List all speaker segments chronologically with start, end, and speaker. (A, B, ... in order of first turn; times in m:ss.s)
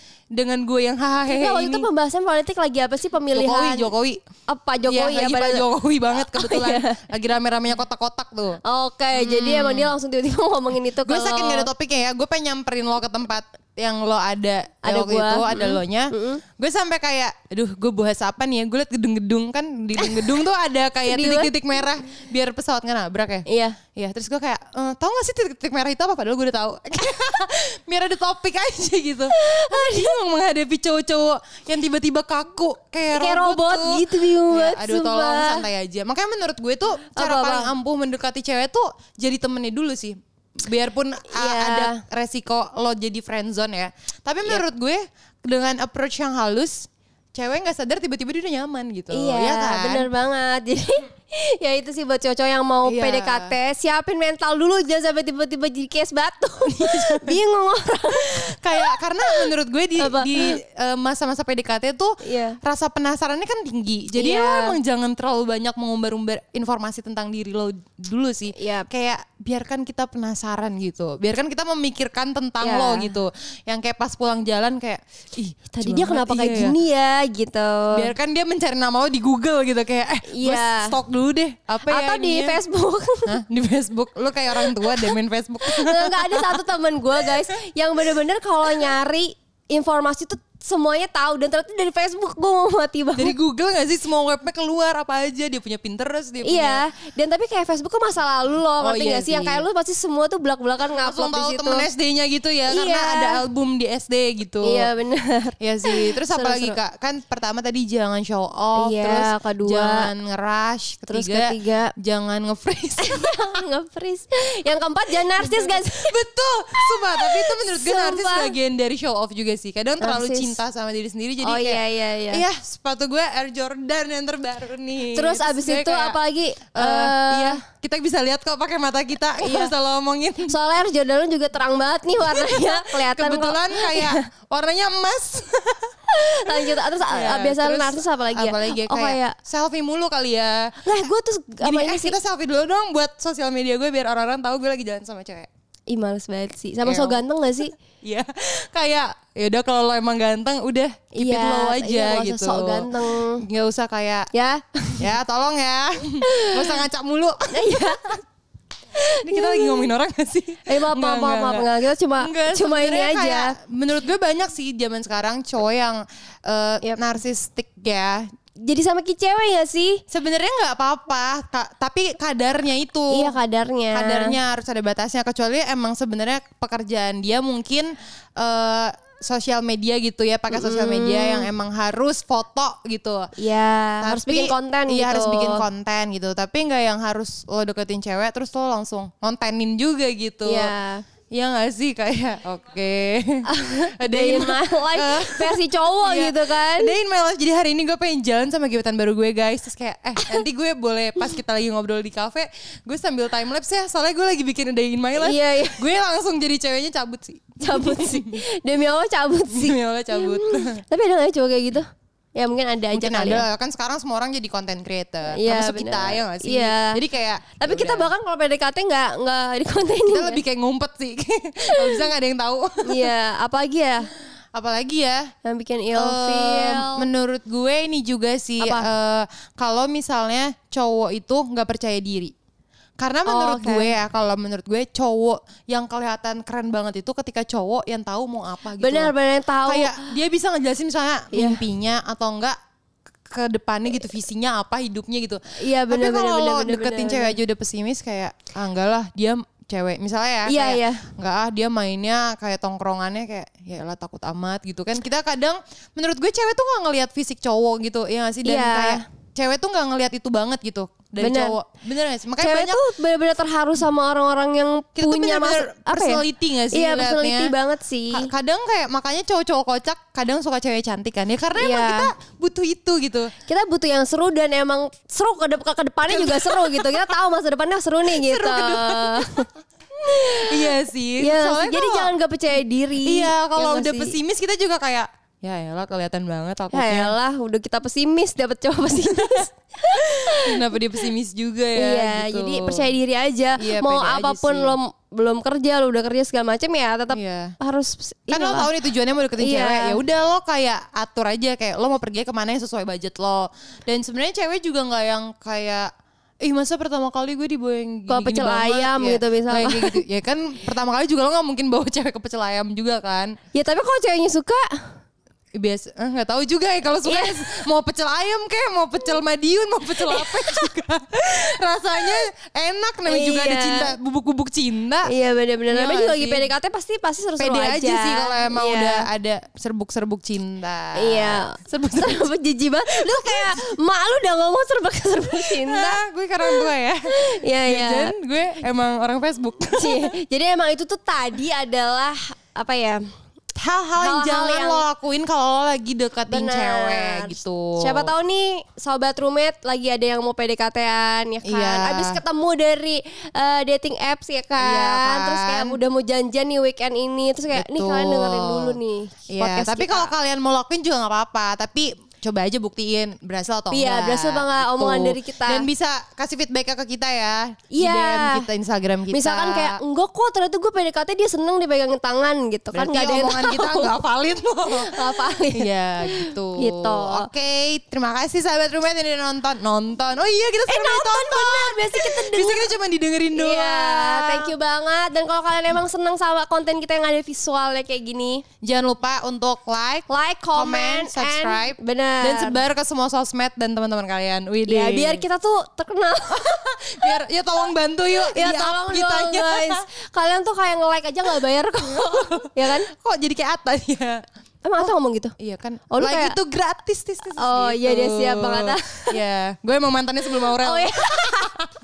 0:00.3-0:01.9 A
0:01.2-0:03.9 B
0:03.3-0:04.2 A
0:04.5-0:07.0 B
0:04.8-0:08.6 A
0:08.6-0:11.7 B
0:09.1-0:09.9 A
0:11.0-0:23.4 A
0:14.8-0:16.4 B
0:20.0-0:20.4 B
0:21.1-0:21.5 B
0:23.4-0:23.8 B
0:24.0-0:50.1 A
0:29.3-0:30.2 B
0:33.1-0:35.6 B
0:37.1-0:37.7 B
0:41.3-0:42.0 B
0:49.1-1:00.6 B
0:52.8-0:53.5 A
0:56.6-0:57.4 A
0:58.1-1:16.8 A
1:02.2-1:02.6 B
1:04.2-1:04.8 B
1:08.5-1:08.9 B
1:12.6-1:13.1 B
1:15.7-1:18.1 B
1:17.9-1:22.6 A
1:20.3-1:21.0 B
1:21.9-1:23.3 B
1:23.2-1:26.6 A
1:24.6-1:25.1 B
1:25.6-1:33.4 B
1:27.2-1:27.5 A
1:28.7-1:28.9 A
1:33.2-1:36.8 A
1:36.4-1:41.9 B
1:38.8-1:39.6 A
1:40.9-1:44.9 A
1:42.7-1:43.4 B
1:44.6-1:46.8 B
1:45.6-1:53.6 A
1:48.8-1:50.1 B
1:51.1-1:51.9 B
1:53.0-1:56.2 B
1:55.4-2:06.2 A
1:56.8-1:58.5 B
2:00.0-2:00.6 B
2:01.4-2:02.4 B
2:05.1-2:07.6 B
2:06.7-2:10.6 A
2:09.4-2:09.7 B
2:10.5-2:14.2 B
2:12.2-2:20.8 A
2:16.1-2:19.4 B
2:20.8-2:22.2 B
2:21.6-2:25.5 A
2:25.9-2:27.7 B
2:26.8-2:27.2 A
2:28.0-2:34.3 A
2:31.1-2:33.4 B
2:34.3-2:35.1 B
2:35.0-2:38.1 A
2:36.3-2:36.8 B
2:37.5-2:38.2 B
2:39.0-2:39.9 B
2:39.0-2:48.2 A
2:40.7-2:43.5 B
2:48.6-2:50.0 B
2:50.1-2:53.4 A
2:53.1-2:54.4 B
2:53.9-3:03.3 A
3:00.5-3:01.5 B
3:03.4-3:05.6 B
3:04.0-3:10.7 A
3:10.4-3:11.0 B
3:11.3-3:28.4 A
3:13.5-3:16.9 B
3:25.2-3:25.8 B
3:27.6-3:33.4 B
3:29.5-3:30.8 A
3:32.9-3:38.1 A
3:35.3-3:37.0 B
3:37.6-3:40.4 B
3:40.1-3:43.1 A
3:41.7-3:42.0 B
3:42.8-3:44.1 B
3:44.5-3:45.3 A
3:45.4-3:47.1 B
3:46.0-3:52.3 A
3:48.6-3:48.9 B
3:53.0-3:59.1 A
3:53.2-3:53.9 B
3:58.8-4:00.1 B
3:59.6-4:02.6 A
4:01.3-4:01.6 B
4:03.3-4:22.8 A
4:05.6-4:07.4 B
4:10.5-4:11.0 B
4:18.4-4:19.0 B
4:21.2-4:21.6 B
4:22.4-4:28.3 B
4:25.0-4:27.5 A
4:28.1-4:33.3 A
4:31.6-4:32.1 B
4:33.4-4:39.5 B
4:36.1-4:37.1 A
4:38.1-4:39.3 A
4:40.0-4:44.1 B
4:40.1-4:42.1 A
4:43.0-4:47.1 A
4:46.7-4:50.6 B
4:50.1-4:52.8 A
4:51.8-4:58.7 B
4:53.6-4:54.8 A
4:57.1-4:57.5 A
4:58.3-5:05.9 A
4:59.4-5:00.0 B
5:06.4-5:13.3 A
5:08.1-5:10.0 B
5:13.5-5:14.7 B
5:15.6-5:25.1 A
5:17.0-5:17.6 B
5:20.0-5:20.6 B
5:23.0-5:23.9 B
5:25.1-5:29.0 B
5:25.7-5:26.5 A
5:27.4-5:32.3 A
5:31.0-5:38.1 B
5:32.9-5:33.6 A
5:35.4-5:37.0 A
5:37.6-5:40.1 A
5:39.7-5:43.0 B
5:43.6-5:48.1 A
5:44.0-5:44.8 B
5:46.3-6:00.1 B
5:51.4-5:52.2 A
5:54.6-5:55.8 A
5:57.5-5:58.8 A
5:59.3-6:09.8 A
6:03.7-6:05.7 B
6:07.7-6:08.4 B
6:09.1-6:13.9 B
6:12.7-6:24.5 A
6:14.7-6:17.3 B
6:20.7-6:22.7 B
6:23.3-6:28.4 B
6:28.6-6:35.2 A
6:30.1-6:32.6 B
6:34.6-6:37.1 B
6:36.3-6:39.8 A
6:38.2-6:42.9 B
6:41.8-6:44.2 A
6:44.6-6:45.3 B
6:44.8-6:51.7 A
6:45.9-6:46.4 B
6:47.4-6:49.2 B
6:50.6-6:51.6 B